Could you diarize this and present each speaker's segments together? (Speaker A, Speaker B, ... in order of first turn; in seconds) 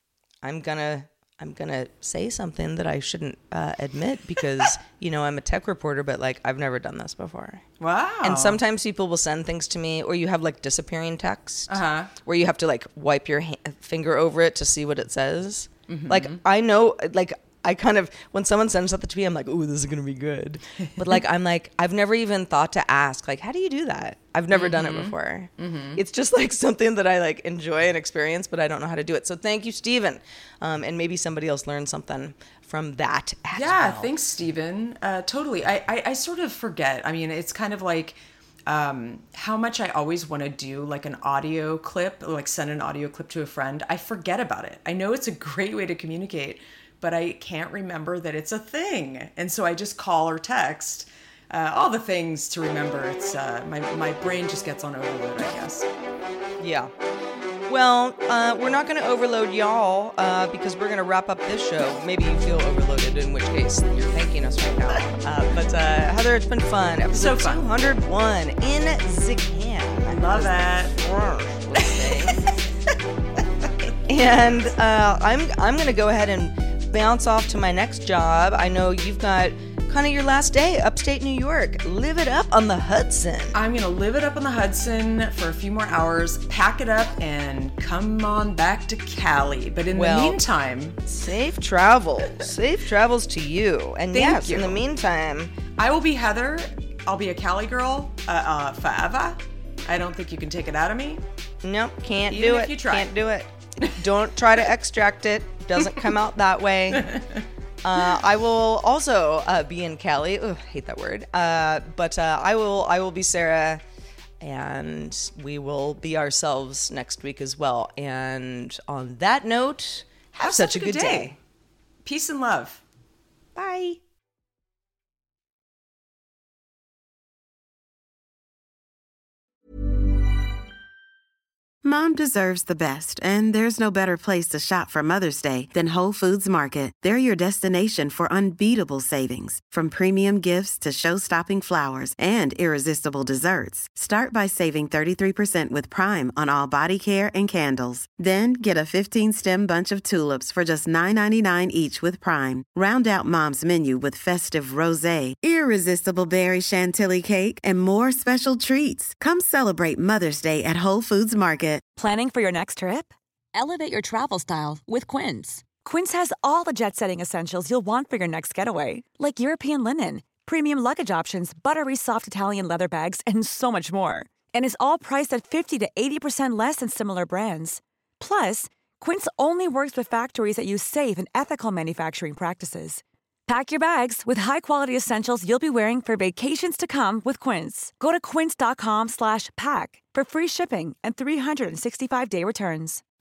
Speaker A: 0.4-7.6, 8.2-34.1, 56.6-56.9, 57.7-72.5, 74.1-83.6, 89.9-90.4, 91.0-95.5, 101.6-107.2, 107.8-113.8, 114.4-121.4, 123.6-124.0
Speaker B: 7.8-8.6, 11.7-12.1, 15.9-16.4, 24.5-26.0, 33.5-55.9, 67.1-67.7, 70.1-71.0, 71.8-72.5, 83.5-91.0, 94.1-94.8, 95.8-101.2, 102.3-103.2, 106.9-107.4, 120.4-121.4, 122.0-122.8
Speaker C: 131.8-161.8
Speaker D: 162.0-193.0